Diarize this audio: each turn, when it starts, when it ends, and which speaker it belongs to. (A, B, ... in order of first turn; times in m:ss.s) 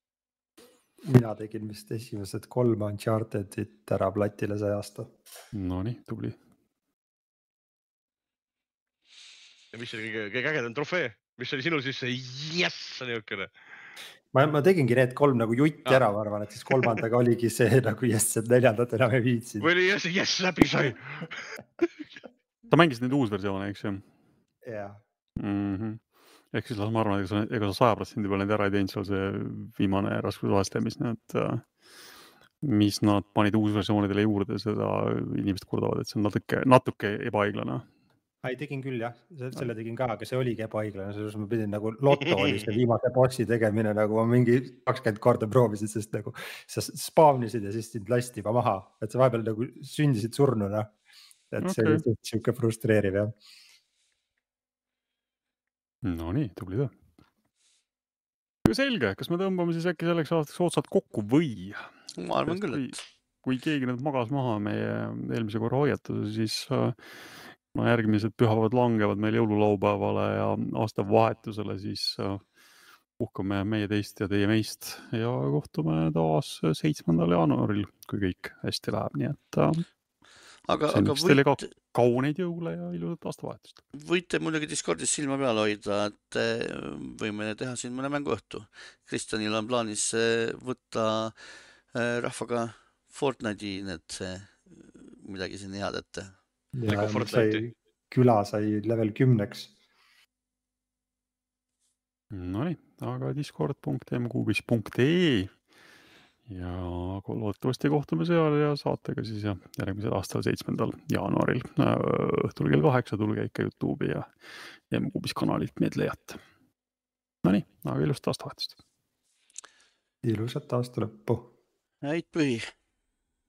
0:01.0-0:05.1 A
0:05.5-0:06.4 B
0:09.7-0:13.5 C
0:14.3-0:19.7 A
0:19.6-0:21.3 C
0:22.7-0:24.0 B
0:24.6-0:25.0 A
0:25.4-0:31.7 B
0:32.6-0:37.8 B
0:38.4-0:50.9 A
0:42.3-0:42.6 C
0:51.5-0:53.4 A
0:51.6-0:52.0 B
0:56.0-0:57.0 B
0:58.6-1:07.0 B
1:02.2-1:03.0 D
1:07.7-1:12.4 B
1:13.2-1:19.8 B
1:20.6-1:21.7 D
1:20.9-1:23.8 B
1:23.9-1:31.3 D
1:31.9-1:36.3 D
1:36.7-1:39.7 A
1:36.9-1:37.6 C
1:42.3-1:45.5 B
1:46.5-1:54.3 B
1:54.9-1:56.4 B
1:57.4-1:58.8 B
2:00.2-2:01.5 A
2:02.0-2:02.7 D